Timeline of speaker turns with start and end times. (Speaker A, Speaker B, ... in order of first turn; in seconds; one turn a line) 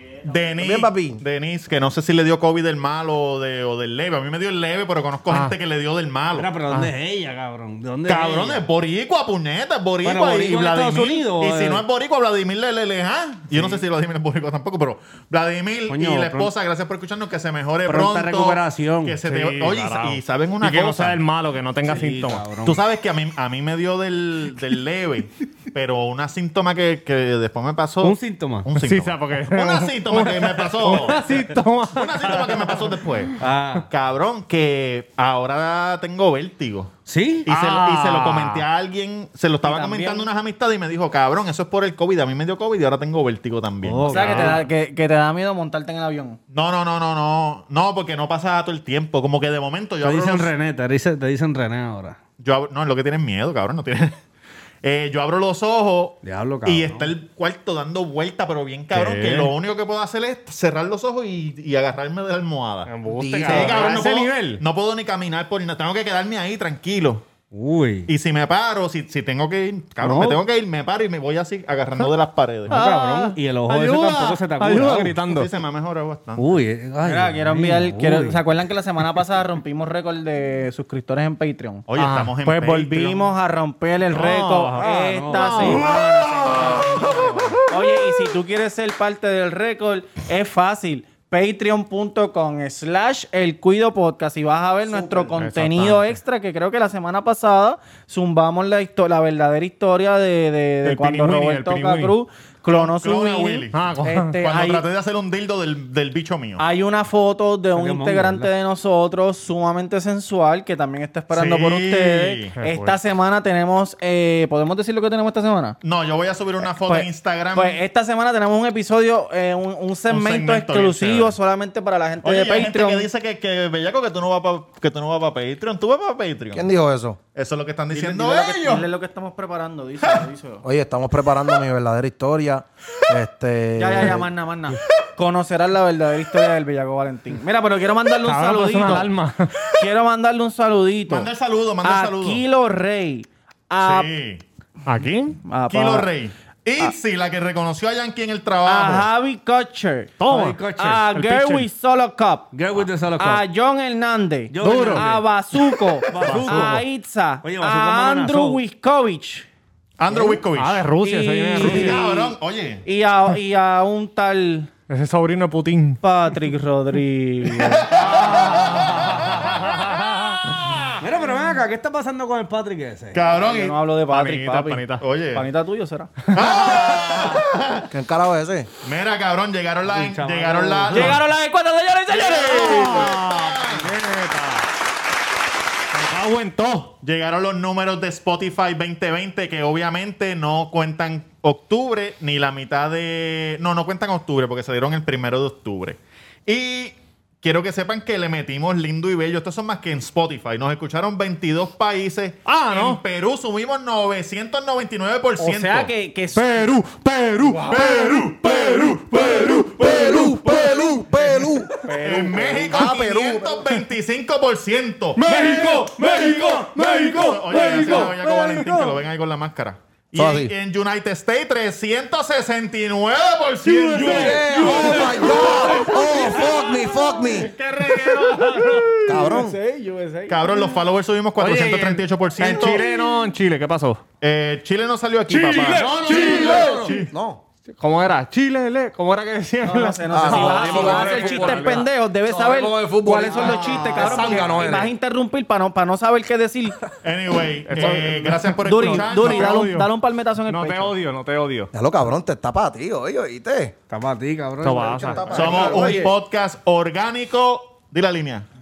Speaker A: 0.2-6.6
Speaker B: 0.6-1.2
Speaker C: 5.3-5.5
Speaker D: 6.4-8.6
Speaker A: 8.1-21.2
Speaker D: 10.0-11.8
Speaker D: 13.5-13.8
Speaker D: 15.9-16.5
Speaker D: 17.9-19.2
Speaker C: 19.2-22.6
Speaker D: 21.8-22.8
Speaker A: 22.6-36.9
Speaker D: 28.0-28.7
Speaker C: 28.8-32.9
Speaker D: 33.4-33.9
Speaker D: 37.1-37.5
Speaker A: 37.5-44.6
Speaker C: 37.5-38.7
Speaker E: 39.6-40.3
Speaker D: 43.8-44.6
Speaker E: 44.1-46.4
Speaker A: 46.5-50.5
Speaker D: 50.0-52.2
Speaker A: 52.4-54.2
Speaker A: 54.8-67.2
Speaker D: 56.2-57.1
Speaker C: 58.9-59.5
Speaker C: 62.9-64.6
Speaker B: 63.1-63.8
Speaker D: 63.5-64.1
Speaker D: 67.5-68.1
Speaker A: 68.1-72.8
Speaker D: 70.0-70.4
Speaker D: 72.7-75.2
Speaker C: 72.7-75.5
Speaker E: 72.7-73.3
Speaker A: 75.2-76.6
Speaker D: 76.4-78.4
Speaker E: 77.0-81.9
Speaker A: 81.9-83.3
Speaker C: 82.0-82.3
Speaker E: 82.4-104.8
Speaker A: 84.1-84.8
Speaker C: 84.2-84.8
Speaker D: 84.8-85.8
Speaker A: 85.3-87.2
Speaker B: 94.9-95.4
Speaker C: 95.3-96.2
Speaker C: 100.8-102.2
Speaker A: 102.7-106.6
Speaker C: 103.7-104.4
Speaker E: 106.6-115.8
Speaker D: 107.8-108.5
Speaker A: 111.3-112.6
Speaker C: 112.6-113.0
Speaker A: 115.8-117.8
Speaker E: 116.6-123.1
Speaker A: 120.1-121.4
Speaker A: 122.2-126.7
Speaker B: 126.5-127.2
Speaker A: 127.3-128.9
Speaker E: 127.9-130.7
Speaker B: 130.6-134.3
Speaker E: 133.8-139.1
Speaker C: 138.2-139.7
Speaker E: 139.8-141.3
Speaker A: 141.1-142.4
Speaker E: 141.8-144.1
Speaker A: 143.8-144.4
Speaker C: 144.9-145.4
Speaker E: 145.5-146.1
Speaker A: 145.7-149.1
Speaker E: 148.7-150.2
Speaker C: 150.2-151.7
Speaker D: 150.3-151.1
Speaker E: 150.8-152.5
Speaker D: 152.5-153.4
Speaker E: 153.2-159.5
Speaker D: 154.5-155.2
Speaker C: 154.6-155.2
Speaker D: 156.1-156.9
Speaker C: 156.2-156.8
Speaker D: 157.4-158.6
Speaker A: 160.0-160.9
Speaker C: 160.5-162.1
Speaker E: 161.0-162.3
Speaker A: 161.6-162.8
Speaker E: 162.8-164.7
Speaker C: 164.9-166.0
Speaker E: 166.0-168.9
Speaker A: 167.6-169.9
Speaker C: 168.0-170.5
Speaker A: 170.5-171.0
Speaker D: 171.0-173.2
Speaker A: 173.1-173.8
Speaker E: 173.3-176.1
Speaker C: 174.1-175.0
Speaker A: 175.0-175.5
Speaker A: 176.3-177.9
Speaker B: 177.9-178.7
Speaker A: 178.8-181.2
Speaker D: 179.8-181.2
Speaker E: 180.9-183.1
Speaker A: 182.1-183.9
Speaker C: 182.4-184.7
Speaker C: 185.9-186.9
Speaker A: 187.0-205.9
Speaker C: 202.5-203.0
Speaker E: 205.4-206.7
Speaker C: 206.3-211.0
Speaker A: 207.6-210.0
Speaker D: 209.1-210.2
Speaker B: 209.6-211.7
Speaker E: 211.8-212.9
Speaker A: 211.9-215.3
Speaker B: 212.7-213.8
Speaker D: 215.2-219.0
Speaker C: 215.3-217.1
Speaker A: 216.6-225.0
Speaker B: 220.2-220.5
Speaker D: 223.7-225.8
Speaker C: 224.0-229.3
Speaker B: 224.0-227.5
Speaker E: 228.4-230.5
Speaker B: 229.1-229.6
Speaker A: 230.3-232.9
Speaker C: 231.4-234.1
Speaker A: 234.2-236.9
Speaker C: 235.3-237.1
Speaker D: 235.6-236.9
Speaker B: 236.0-237.4
Speaker C: 237.8-241.9
Speaker E: 239.6-246.8
Speaker B: 240.1-244.9
Speaker A: 243.3-244.8
Speaker A: 247.0-249.7
Speaker C: 247.7-249.9
Speaker E: 247.8-248.1
Speaker E: 248.7-251.0
Speaker C: 250.5-251.7
Speaker B: 251.7-253.8
Speaker D: 253.9-255.8
Speaker C: 254.6-255.5
Speaker B: 254.9-256.1
Speaker E: 255.3-256.1
Speaker A: 255.3-258.5